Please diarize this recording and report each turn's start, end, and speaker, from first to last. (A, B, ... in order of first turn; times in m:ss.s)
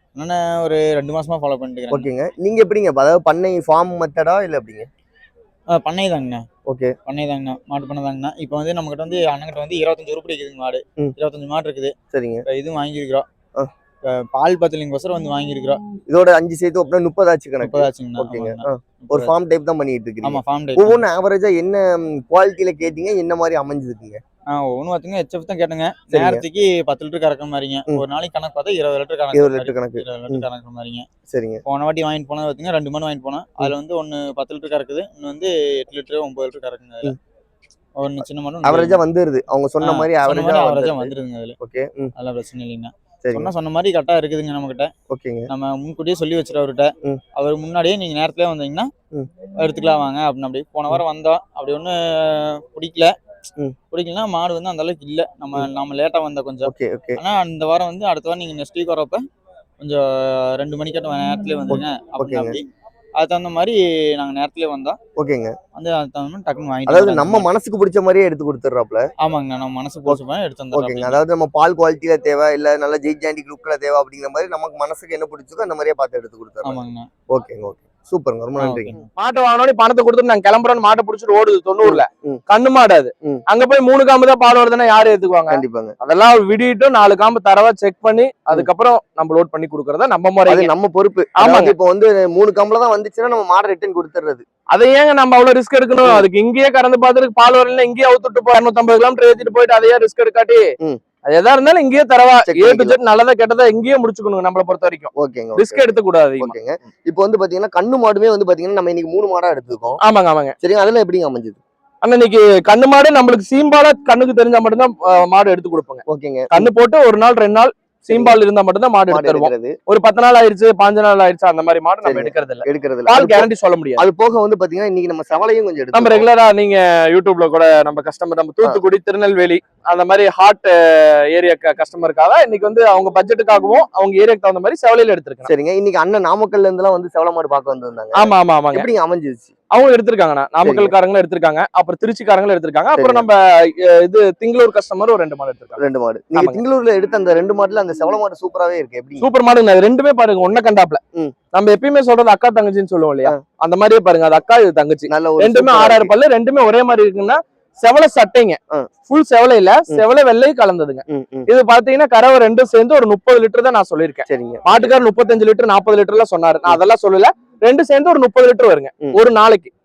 0:00.2-0:02.1 A
0:01.9-0:04.9 B
0:05.7-0:06.4 A
0:06.7-0:06.9 B
0:07.1-0:11.9 A
0:12.1-0:12.4 B
0:12.5-0:13.3 A
0:14.1-0:15.8 A
0:16.1-0:24.2 B
0:17.6-0:19.3 A
0:20.2-0:21.0 A
0:24.5-0:31.1 A
0:26.1-0:26.4 B
0:29.3-0:30.5 B
0:31.3-0:31.6 B
0:31.7-0:37.2 A
0:38.0-0:39.0 A
0:38.6-0:42.1 B
0:39.8-0:41.6 A
0:42.2-0:44.9 A
0:43.2-0:43.5 B
0:45.1-0:45.5 B
0:45.5-0:48.9 A
0:49.6-0:53.1 A
0:53.9-0:59.2 A
0:56.6-0:57.2 B
1:00.6-1:02.7 A
1:01.7-1:02.6 B
1:03.2-1:05.0 A
1:05.2-1:05.6 B
1:05.8-1:07.5 A
1:06.9-1:09.1 B
1:09.2-1:11.2 A
1:10.7-1:19.0 B
1:16.6-1:17.1 A
1:18.6-1:19.0 A
1:19.2-1:30.7 C
1:21.8-1:22.4 B
1:25.5-1:26.0 B
1:30.5-1:34.4 B
1:31.4-1:31.7 C
1:34.7-1:40.6 C
1:41.3-1:46.5 C
1:42.5-1:43.0 B
1:45.2-1:45.9 B
1:46.4-1:50.0 B
1:50.0-1:50.6 C
1:50.6-1:51.6 B
1:52.0-2:04.0 C
1:56.1-1:56.7 B
1:58.1-1:58.4 B
1:59.1-1:59.8 B
2:02.0-2:06.3 B
2:05.9-2:15.5 C
2:15.5-2:19.5 B
2:18.2-2:18.9 C
2:19.7-2:25.8 C
2:20.6-2:20.9 B
2:23.0-2:23.2 B
2:25.8-2:29.3 B
2:26.4-2:26.6 C
2:29.2-2:31.0 C
2:31.5-2:49.7 C
2:35.1-2:36.1 B
2:41.1-2:41.5 B
2:44.3-2:45.0 B